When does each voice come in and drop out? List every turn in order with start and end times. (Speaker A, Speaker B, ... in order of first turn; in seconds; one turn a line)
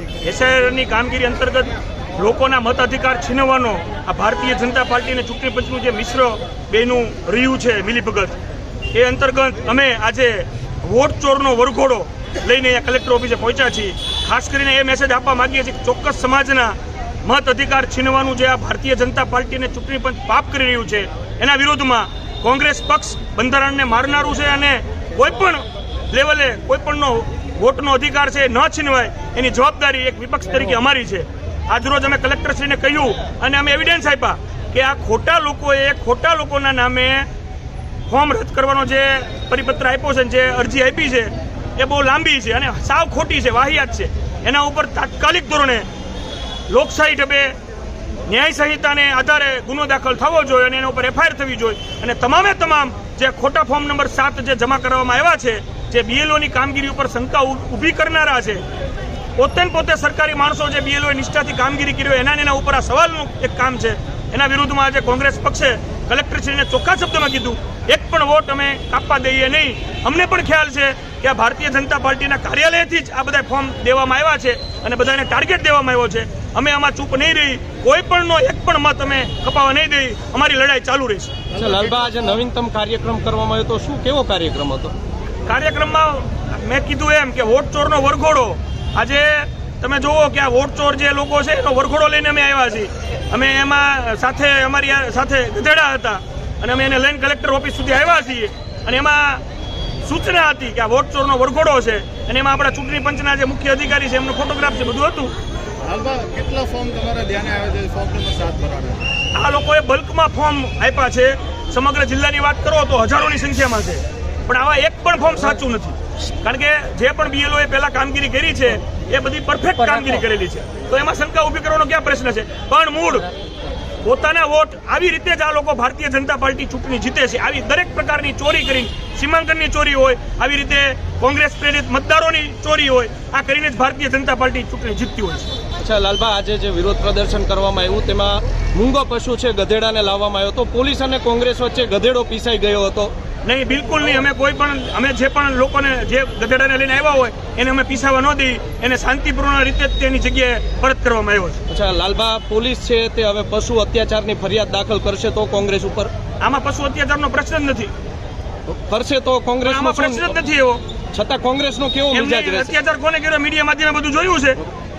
Speaker A: 0.2-8.4
Speaker A: 8.9-37.3
Speaker A: 38.1-45.9
Speaker A: 46.7-47.5
Speaker A: 48.3-58.6
Speaker A: 59.4-81.5
Speaker B: 81.5-84.9
Speaker C: 81.5-82.0
Speaker A: 85.5-99.4
Speaker A: 100.0-105.3
Speaker C: 105.8-109.0
Speaker A: 109.3-123.3
Speaker B: 120.0-120.2
Speaker A: 124.0-135.6
Speaker B: 135.8-143.1
Speaker A: 143.4-151.6
Speaker B: 151.7-156.1
Speaker A: 156.4-157.9
Speaker B: 158.7-160.4
Speaker A: 159.6-160.8
Speaker B: 161.1-162.8
Speaker A: 162.1-164.6